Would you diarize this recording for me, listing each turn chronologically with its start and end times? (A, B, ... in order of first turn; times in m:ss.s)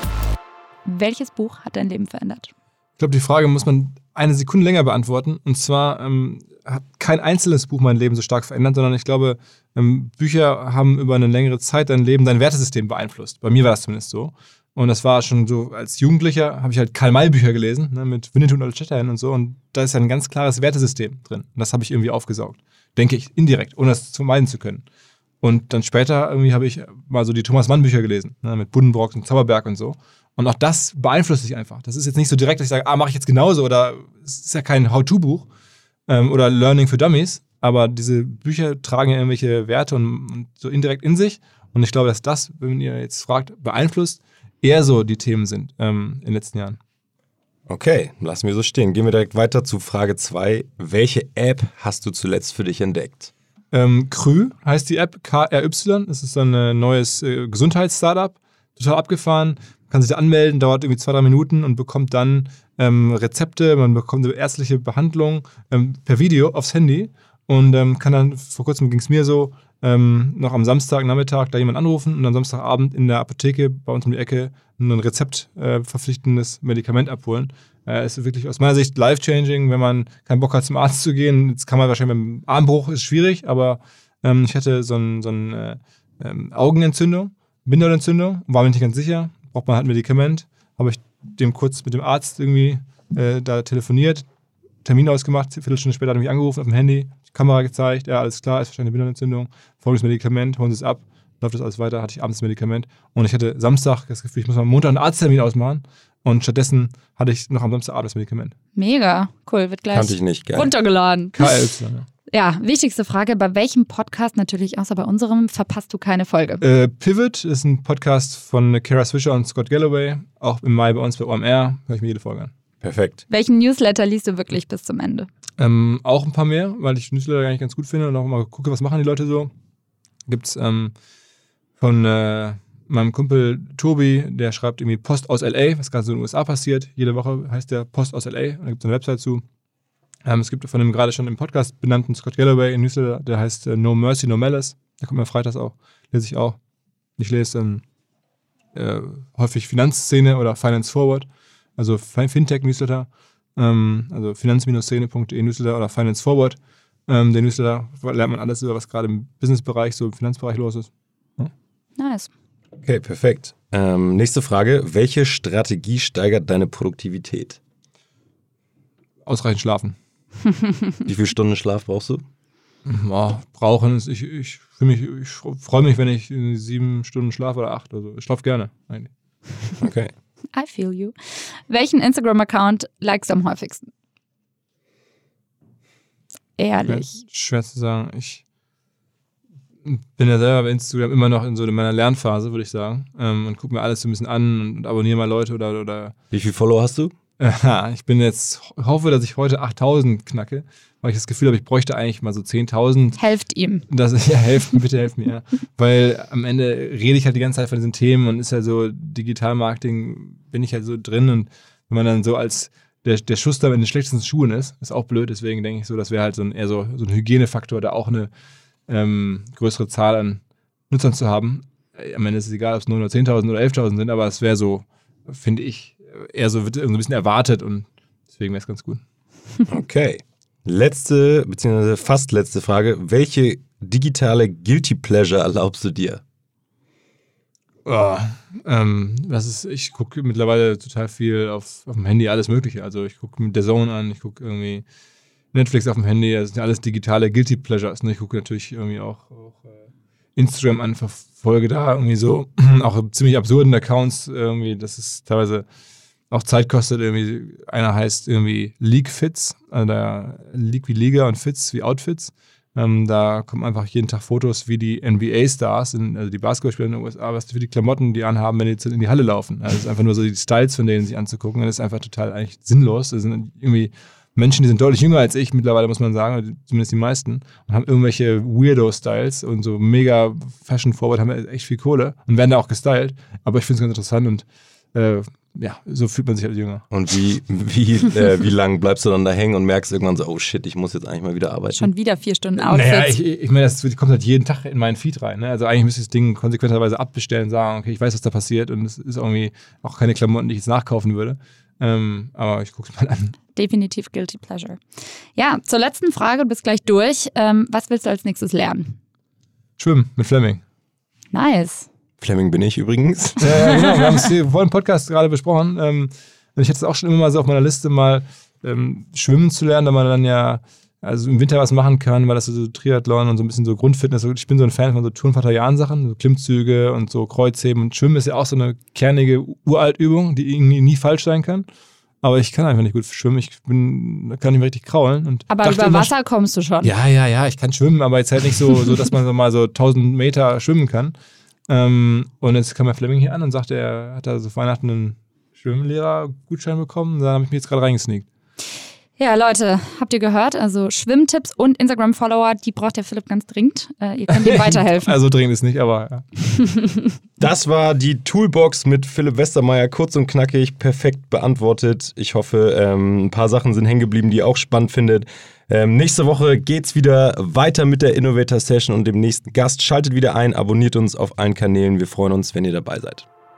0:00.9-0:02.5 A
0:03.0-0:24.8 B
0:25.4-0:35.5 B
0:36.1-0:46.8 B
0:47.7-0:53.3 C
0:53.7-1:34.2 B
1:34.8-1:48.5 B
1:48.8-1:51.5 A
1:49.9-1:50.7 C
1:51.4-1:52.1 B
1:52.3-1:56.6 A
1:56.6-2:02.5 B
2:02.8-2:03.2 C
2:03.3-2:05.3 A
2:05.6-2:09.5 B
2:10.3-2:10.9 B
2:11.8-2:19.4 B
2:20.2-2:26.6 B
2:27.2-2:27.8 B
2:28.7-2:41.5 B
2:42.0-2:42.3 A
2:42.8-2:47.6 C
2:49.2-2:50.0 B
2:51.0-2:52.2 C
2:52.8-2:59.1 B
2:59.8-3:00.1 C
3:00.5-3:01.1 A
3:01.7-3:03.8 A
3:06.6-3:07.2 A
3:06.8-3:08.4 B
3:09.8-3:16.2 B
3:16.3-3:17.2 C
3:17.4-3:23.2 B
3:23.2-3:23.8 A
3:23.9-3:38.3 B
3:38.9-3:49.0 B
3:49.7-3:56.2 C
3:57.8-4:04.8 B
4:05.5-4:09.8 B
4:10.4-4:15.7 B
4:16.3-4:46.8 B
4:46.9-4:51.9 C
4:51.8-4:53.2 A
4:52.6-5:03.4 B
5:03.5-5:04.8 A
5:05.4-5:09.0 A
5:09.8-5:10.6 B
5:11.3-5:11.9 A
5:12.2-5:13.5 C
5:13.4-5:31.6 B
5:13.6-5:14.2 A
5:32.2-5:36.1 B
5:35.5-5:36.9 A
5:36.8-5:41.1 B
5:41.7-5:48.2 B
5:49.2-5:55.2 A
5:54.3-5:56.3 B
5:56.6-5:57.0 A
5:57.4-6:13.2 C